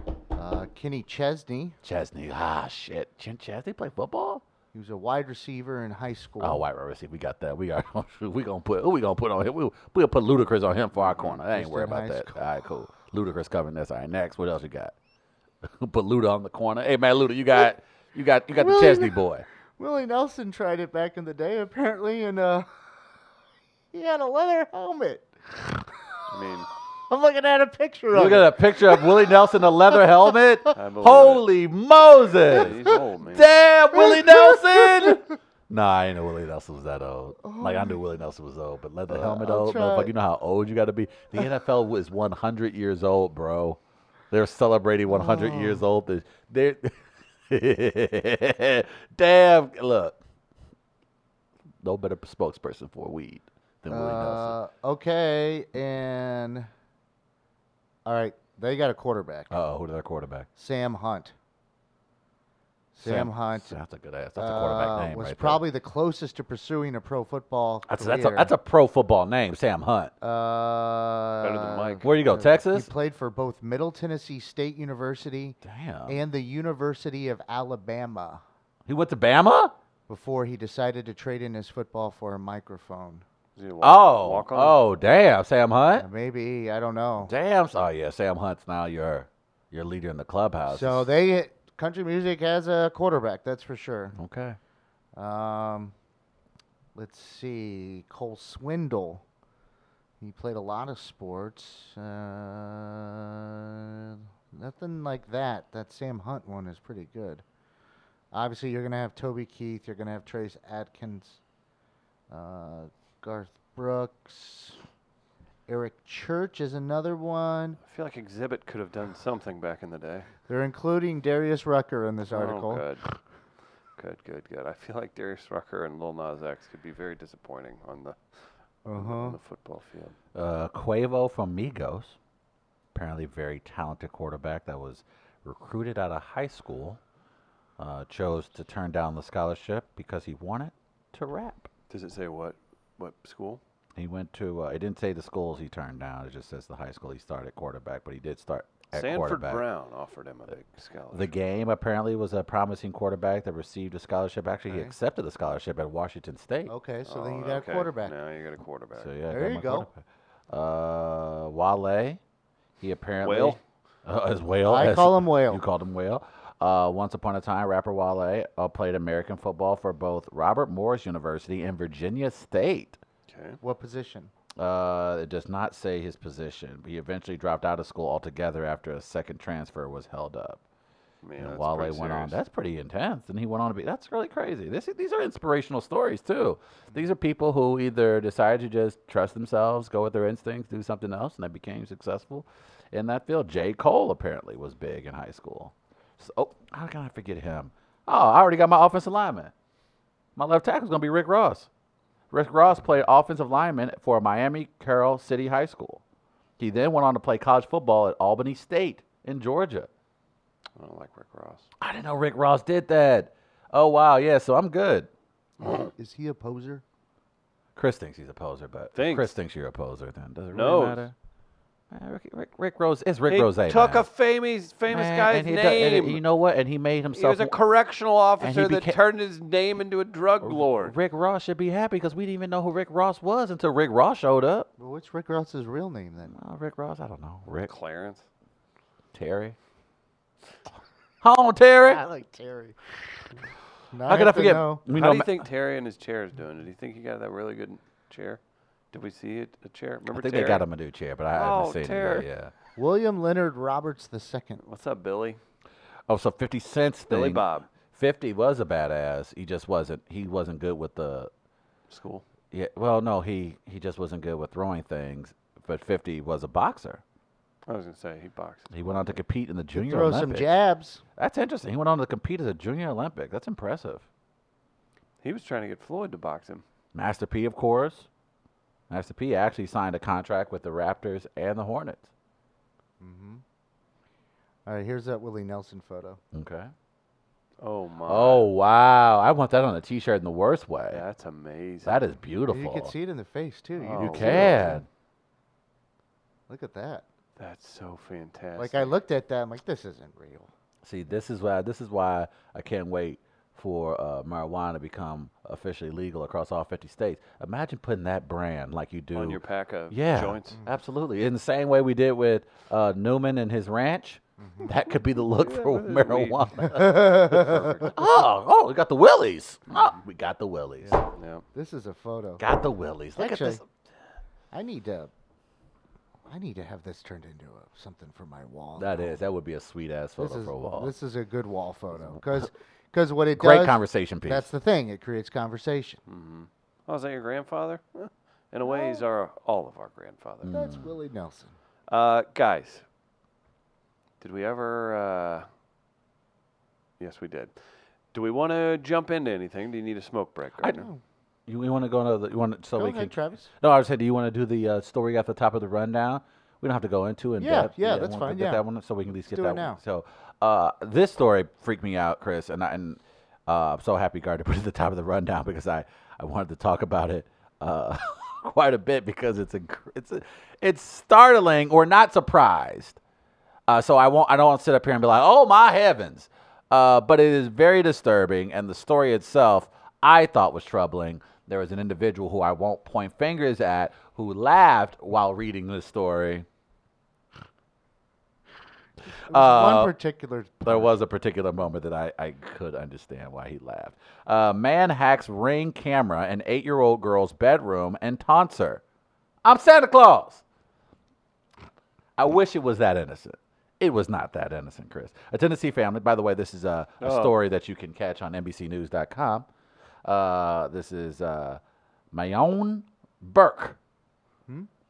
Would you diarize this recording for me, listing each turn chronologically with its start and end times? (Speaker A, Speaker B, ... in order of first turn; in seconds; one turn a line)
Speaker A: 0.3-1.8
Speaker B: 1.8-4.4
Speaker A: 4.7-6.6
Speaker B: 6.4-14.9
Speaker C: 11.0-11.4
Speaker A: 11.5-12.5
Speaker B: 15.6-19.4
Speaker A: 18.6-19.2
Speaker A: 19.8-22.7
Speaker A: 23.9-26.1
Speaker C: 26.3-26.7
Speaker A: 27.1-29.3
Speaker B: 28.1-43.8
Speaker C: 30.7-31.4
Speaker C: 32.5-33.5
Speaker A: 33.9-35.3
Speaker A: 37.4-38.0
Speaker A: 39.1-40.1
Speaker B: 44.3-50.2
Speaker A: 45.1-45.8
Speaker B: 51.8-54.6
Speaker A: 53.9-56.7
Speaker A: 58.0-59.6
Speaker B: 59.5-60.5
Speaker A: 60.5-61.3
Speaker A: 62.9-63.8
Speaker B: 63.0-65.6
Speaker A: 64.4-68.5
Speaker B: 67.9-70.1
Speaker A: 70.2-78.4
Speaker C: 71.4-72.1
Speaker B: 72.0-72.9
Speaker B: 75.6-76.2
Speaker B: 78.9-79.7
Speaker A: 80.1-83.2
Speaker C: 83.5-84.8
Speaker B: 83.8-86.1
Speaker A: 86.0-87.3
Speaker B: 87.2-91.1
Speaker A: 90.7-94.2
Speaker B: 94.2-94.6
Speaker A: 95.2-96.0
Speaker A: 97.0-99.2
Speaker A: 100.2-107.4
Speaker A: 108.3-111.4
Speaker A: 112.3-114.8
Speaker A: 115.7-117.8
Speaker C: 117.8-120.3
Speaker A: 120.5-122.9
Speaker C: 122.3-123.1
Speaker C: 124.0-128.2
Speaker A: 128.9-129.4
Speaker C: 128.9-130.1
Speaker B: 130.3-132.2
Speaker B: 132.9-137.0
Speaker B: 137.8-141.7
Speaker C: 141.9-143.6
Speaker B: 143.9-149.6
Speaker C: 148.9-151.3
Speaker B: 151.1-156.7
Speaker A: 154.7-154.9
Speaker A: 156.7-158.2
Speaker C: 157.1-159.1
Speaker B: 159.0-162.2
Speaker A: 159.3-159.9
Speaker B: 162.8-173.0
Speaker C: 163.2-163.6
Speaker A: 164.7-165.6
Speaker C: 173.3-173.6
Speaker A: 173.6-174.3
Speaker B: 174.6-180.6
Speaker C: 181.2-182.4
Speaker B: 181.4-199.5
Speaker B: 200.4-201.7
Speaker B: 202.3-206.0
Speaker B: 206.6-209.9
Speaker C: 210.8-211.7
Speaker B: 211.8-215.1
Speaker A: 215.6-216.8
Speaker C: 215.6-215.9
Speaker B: 217.8-221.1
Speaker C: 218.9-219.3
Speaker C: 220.5-221.1
Speaker B: 221.9-224.1
Speaker C: 223.3-226.2
Speaker B: 224.9-227.6
Speaker C: 227.1-230.9
Speaker B: 228.4-229.0
Speaker B: 230.4-234.7
Speaker A: 234.8-236.4
Speaker B: 236.3-237.7
Speaker C: 237.7-238.2
Speaker B: 239.1-239.6
Speaker B: 241.2-242.0
Speaker A: 241.9-242.8
Speaker A: 243.9-244.8
Speaker B: 244.1-245.4
Speaker C: 244.9-248.4
Speaker C: 248.9-250.6
Speaker B: 250.1-252.5
Speaker C: 251.3-252.3
Speaker A: 252.8-254.6
Speaker C: 254.6-255.4
Speaker B: 256.1-261.3
Speaker C: 257.1-257.7
Speaker C: 261.9-262.2
Speaker B: 262.5-267.0
Speaker C: 267.7-268.9
Speaker B: 268.7-270.5
Speaker A: 269.7-271.0
Speaker B: 271.2-274.1
Speaker C: 275.2-276.6
Speaker B: 276.9-278.1
Speaker B: 278.9-282.1
Speaker A: 283.0-283.4
Speaker A: 284.6-286.2
Speaker B: 286.3-286.7
Speaker C: 287.6-288.5
Speaker B: 288.1-291.0
Speaker C: 290.9-292.0
Speaker B: 291.8-292.9
Speaker A: 292.5-294.8
Speaker C: 293.8-294.8
Speaker B: 294.0-294.9
Speaker A: 296.5-297.1
Speaker C: 297.4-298.9
Speaker A: 298.6-300.5
Speaker B: 300.8-321.0
Speaker C: 309.1-310.6
Speaker A: 314.4-314.7
Speaker C: 315.0-318.0
Speaker A: 316.6-317.8
Speaker A: 320.8-322.4
Speaker C: 321.1-321.4
Speaker B: 322.4-323.6
Speaker A: 323.1-323.6
Speaker A: 324.5-325.1
Speaker A: 326.3-329.1
Speaker B: 328.8-330.9
Speaker A: 330.2-336.0
Speaker B: 332.1-332.4
Speaker B: 333.3-334.5
Speaker C: 336.1-340.6
Speaker A: 338.6-339.0
Speaker A: 340.5-341.5
Speaker B: 340.5-340.9
Speaker C: 341.9-342.8
Speaker C: 344.2-345.5
Speaker C: 347.0-347.5
Speaker C: 348.1-350.9
Speaker A: 350.7-351.0
Speaker B: 351.5-373.0
Speaker A: 352.8-353.5
Speaker A: 357.4-358.6
Speaker A: 359.2-359.8
Speaker B: 373.7-386.4
Speaker A: 389.3-390.9
Speaker B: 389.3-389.9
Speaker B: 390.6-398.8
Speaker B: 399.4-400.4
Speaker B: 402.2-409.5
Speaker C: 407.0-407.3
Speaker B: 410.1-411.6
Speaker B: 412.1-413.8